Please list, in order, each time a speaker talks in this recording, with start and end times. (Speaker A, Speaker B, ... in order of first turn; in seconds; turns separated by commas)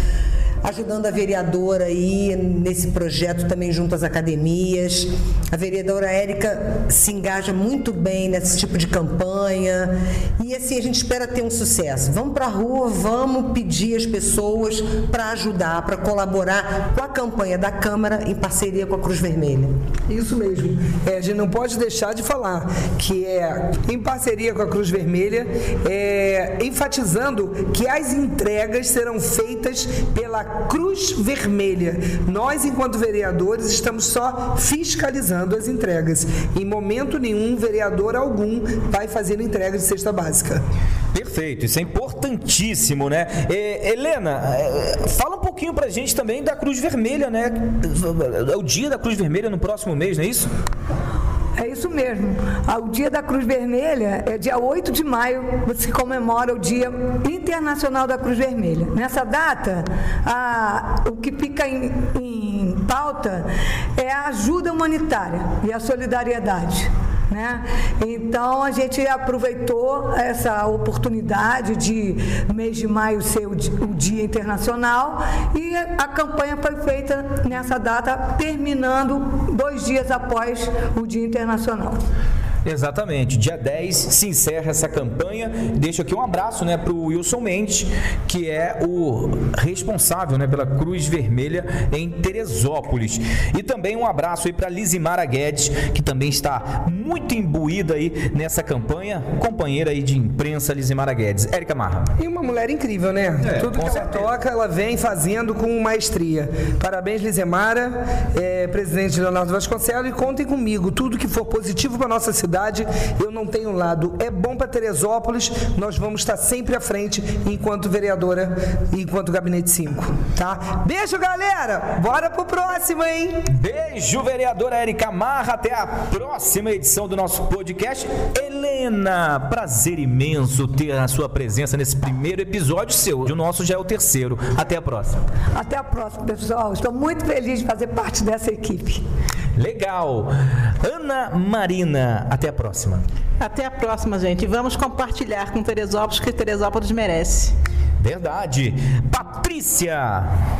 Speaker A: 0.6-19.7, Speaker B: 20.1-40.6, Speaker C: 41.1-50.5, Speaker D: 51.6-82.0, Speaker C: 82.6-102.1, Speaker B: 102.2-123.4, Speaker C: 103.4-104.3, Speaker C: 123.5-135.2, Speaker D: 135.6-139.0, Speaker C: 139.6-143.0, Speaker E: 143.4-147.5, Speaker C: 148.0-150.3